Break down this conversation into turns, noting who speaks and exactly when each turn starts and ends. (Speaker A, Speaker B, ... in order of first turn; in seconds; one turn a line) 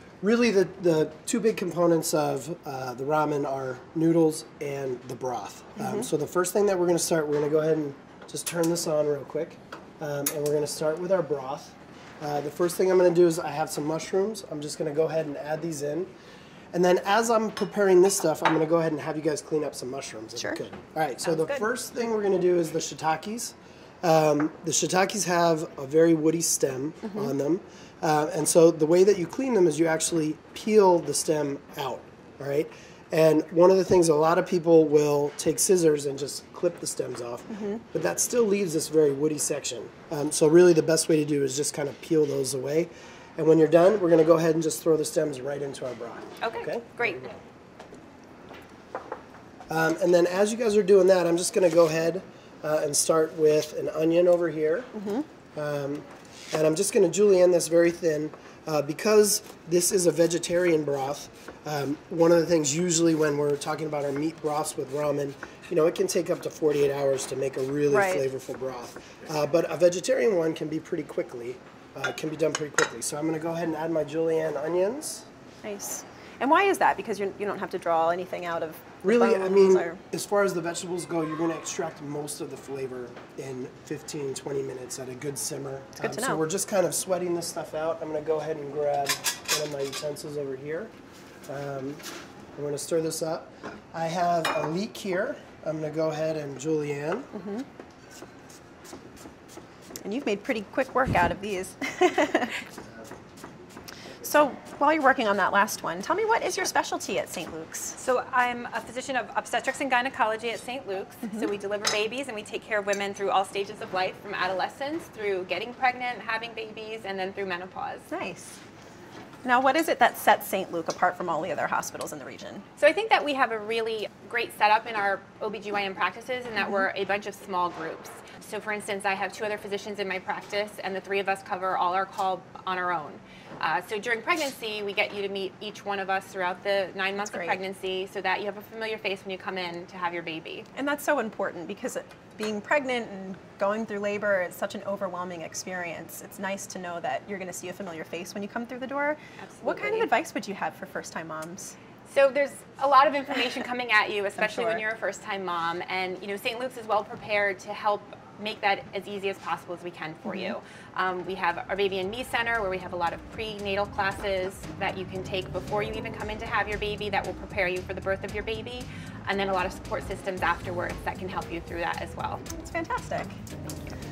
Speaker A: 0.2-16.1
Speaker B: 5.8-6.1
Speaker A: 16.7-47.4
Speaker C: 21.3-21.7
Speaker B: 27.0-27.3
Speaker B: 37.5-37.8
Speaker C: 46.4-47.3
Speaker A: 49.7-54.9
Speaker B: 54.9-55.2
Speaker A: 55.5-75.3
Speaker B: 67.9-68.3
Speaker B: 75.6-80.0
Speaker A: 79.0-90.9
Speaker B: 86.0-86.4
Speaker A: 91.5-92.0
Speaker A: 92.5-97.3
Speaker B: 97.3-97.7
Speaker B: 100.0-102.6
Speaker B: 104.2-108.0
Speaker C: 108.0-118.1
Speaker B: 111.2-111.5
Speaker B: 118.1-118.6
Speaker B: 119.4-122.7
Speaker C: 122.8-140.7
Speaker B: 137.2-137.6
Speaker B: 140.8-151.8
Speaker C: 149.4-150.1
Speaker C: 152.1-172.4
Speaker B: 154.4-154.8
Speaker B: 160.2-160.5
Speaker B: 172.5-174.0